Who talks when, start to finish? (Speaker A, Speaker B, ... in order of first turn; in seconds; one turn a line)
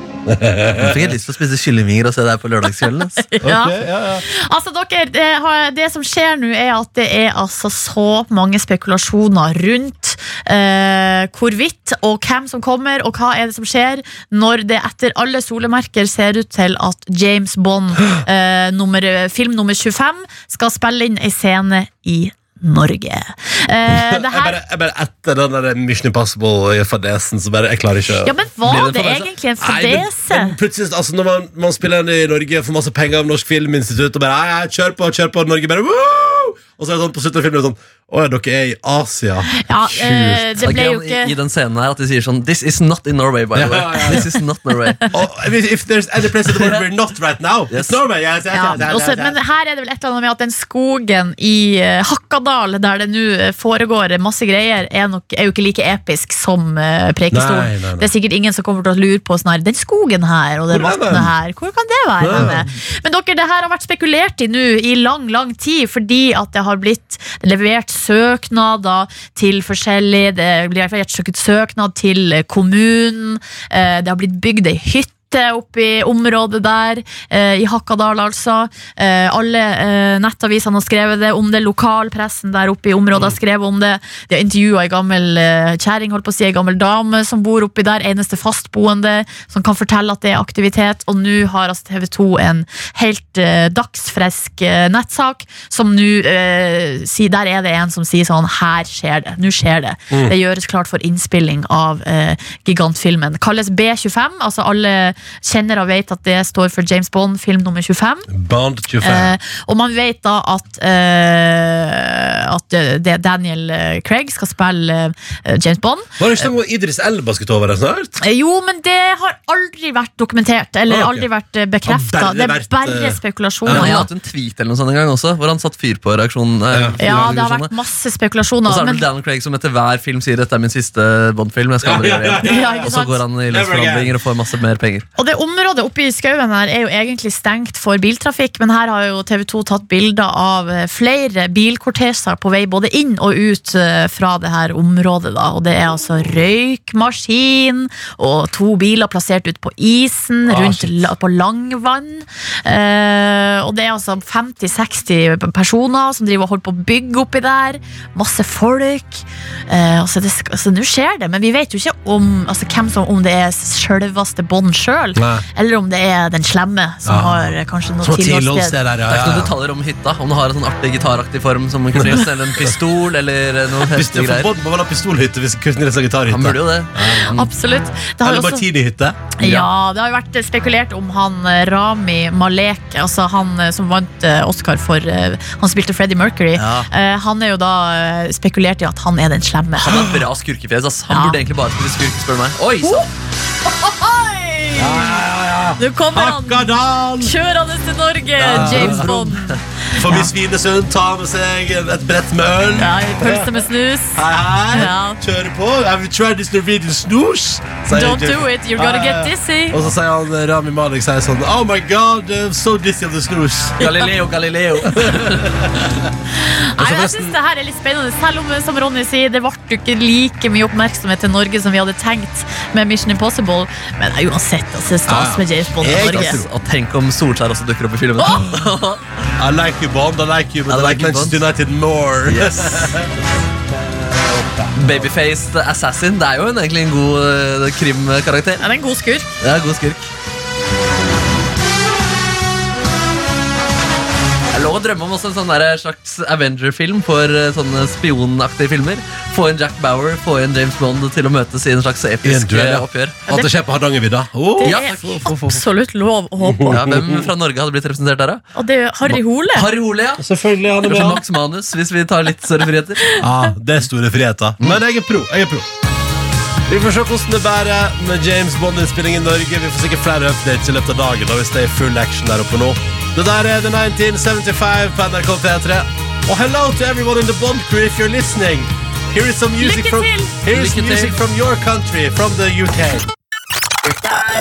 Speaker A: 0.3-1.1
Speaker B: 0.8-3.2
Speaker C: 3.2-24.6
Speaker A: 3.4-4.2
Speaker A: 23.9-28.3
Speaker C: 28.2-30.5
Speaker B: 28.6-29.3
Speaker A: 29.6-40.6
Speaker C: 39.5-41.3
Speaker B: 40.6-45.1
Speaker A: 43.5-44.3
Speaker A: 45.1-49.4
Speaker B: 46.5-46.8
Speaker B: 47.7-48.0
Speaker C: 48.5-108.3
Speaker A: 57.3-58.1
Speaker A: 60.7-61.3
Speaker A: 62.2-62.6
Speaker A: 108.3-109.3
Speaker C: 109.0-116.2
Speaker A: 116.2-118.2
Speaker C: 118.2-124.1
Speaker A: 120.9-121.3
Speaker A: 121.8-124.1
Speaker B: 123.7-127.7
Speaker A: 126.7-127.0
Speaker C: 127.0-129.0
Speaker B: 128.7-135.1
Speaker A: 131.8-132.9
Speaker C: 132.4-133.2
Speaker A: 133.5-134.1
Speaker C: 135.2-168.8
Speaker A: 150.5-151.0
Speaker A: 165.2-165.4
Speaker A: 167.1-169.5
Speaker B: 169.1-174.5
Speaker A: 173.9-177.3
Speaker B: 176.3-177.5
Speaker C: 177.1-178.7
Speaker A: 178.2-179.2
Speaker C: 179.4-190.1
Speaker B: 179.4-179.7
Speaker B: 186.6-186.9
Speaker B: 189.8-193.1
Speaker C: 191.1-191.4
Speaker C: 193.9-195.1
Speaker A: 194.8-197.3
Speaker C: 195.8-200.3
Speaker B: 198.4-199.6
Speaker A: 198.5-199.1
Speaker A: 199.9-203.6
Speaker C: 202.8-204.2
Speaker A: 204.1-213.9
Speaker C: 204.7-205.2
Speaker C: 207.9-209.8
Speaker B: 213.8-215.6
Speaker A: 214.9-216.1
Speaker C: 216.4-226.4
Speaker A: 216.8-217.3
Speaker A: 225.1-226.5
Speaker B: 225.8-229.0
Speaker A: 229.4-233.1
Speaker B: 230.7-231.4
Speaker B: 232.3-233.0
Speaker A: 234.0-234.7
Speaker B: 234.7-238.6
Speaker C: 238.6-239.3
Speaker B: 239.4-240.1
Speaker B: 244.5-253.3
Speaker A: 252.2-255.4
Speaker C: 254.6-256.8
Speaker B: 254.6-255.4
Speaker A: 256.4-257.3
Speaker B: 256.7-258.4
Speaker C: 258.5-259.7
Speaker B: 259.1-260.2
Speaker A: 260.2-261.2
Speaker B: 260.8-263.0
Speaker A: 263.2-265.7
Speaker A: 266.7-283.1
Speaker C: 279.6-280.3
Speaker B: 280.5-281.2